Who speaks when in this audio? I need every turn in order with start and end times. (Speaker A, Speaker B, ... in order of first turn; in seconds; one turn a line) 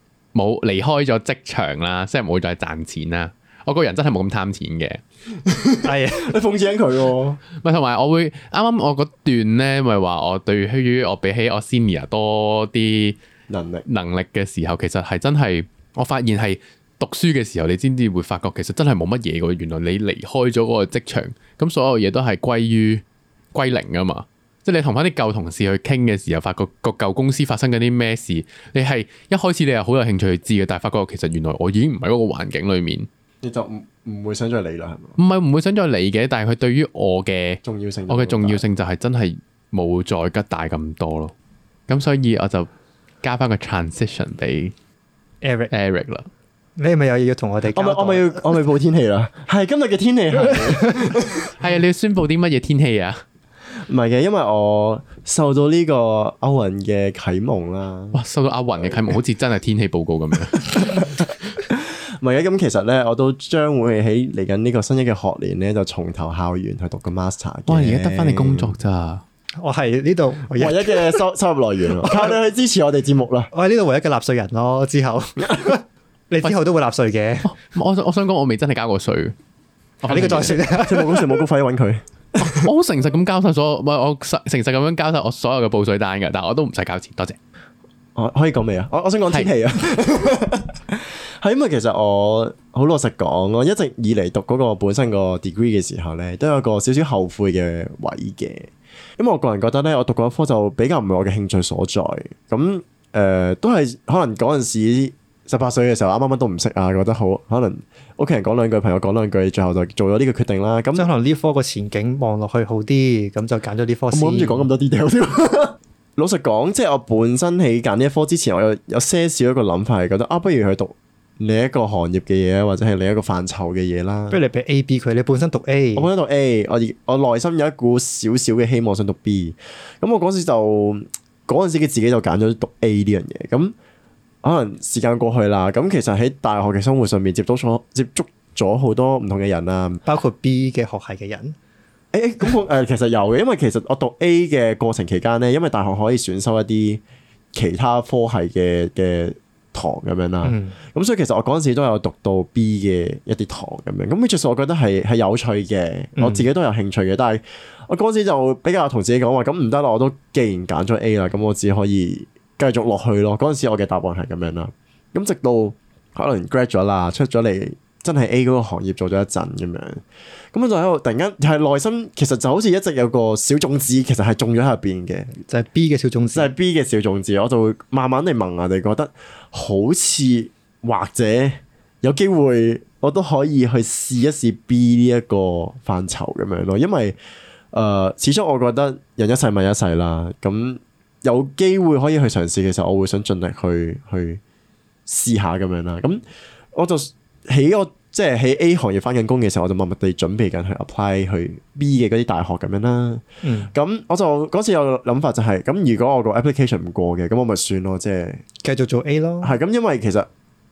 Speaker A: 0.3-5.0
Speaker B: 5.5-7.4
Speaker C: 5.8-6.3
Speaker A: 7.5-13.2
Speaker B: 13.5-13.8
Speaker A: 13.9-33.1
Speaker B: 33.4-35.2
Speaker A: 35.2-41.3
Speaker B: 37.6-38.6
Speaker A: 41.9-42.7
Speaker A: 43.2-44.7
Speaker C: 45.4-45.7
Speaker A: 45.7-46.3
Speaker C: 46.8-48.6
Speaker B: 47.7-51.5
Speaker C: 50.4-51.2
Speaker A: 51.6-53.2
Speaker B: 53.8-58.2
Speaker A: 58.1-61.0
Speaker B: 60.6-61.2
Speaker B: 61.7-68.8
Speaker A: 67.7-69.2
Speaker C: 69.6-71.2
Speaker B: 70.6-73.5
Speaker C: 72.0-72.4
Speaker C: 73.5-77.5
Speaker A: 77.4-79.4
Speaker A: 80.0-80.6
Speaker C: 80.1-81.4
Speaker B: 80.1-82.7
Speaker A: 82.4-87.4
Speaker B: 88.2-111.0
Speaker C: 111.0-114.7
Speaker B: 114.1-124.4
Speaker C: 124.3-126.1
Speaker B: 126.0-133.8
Speaker B: 134.4-140.0
Speaker C: 140.1-141.6
Speaker B: 142.1-147.0
Speaker B: 147.6-175.3
Speaker C: 150.4-150.8
Speaker C: 156.2-156.5
Speaker C: 175.5-176.5
Speaker B: 176.3-187.2
Speaker B: 187.7-194.4
Speaker B: 195.1-196.2
Speaker B: 196.7-208.4
Speaker C: 203.4-203.7
Speaker C: 208.6-209.5
Speaker B: 209.4-210.3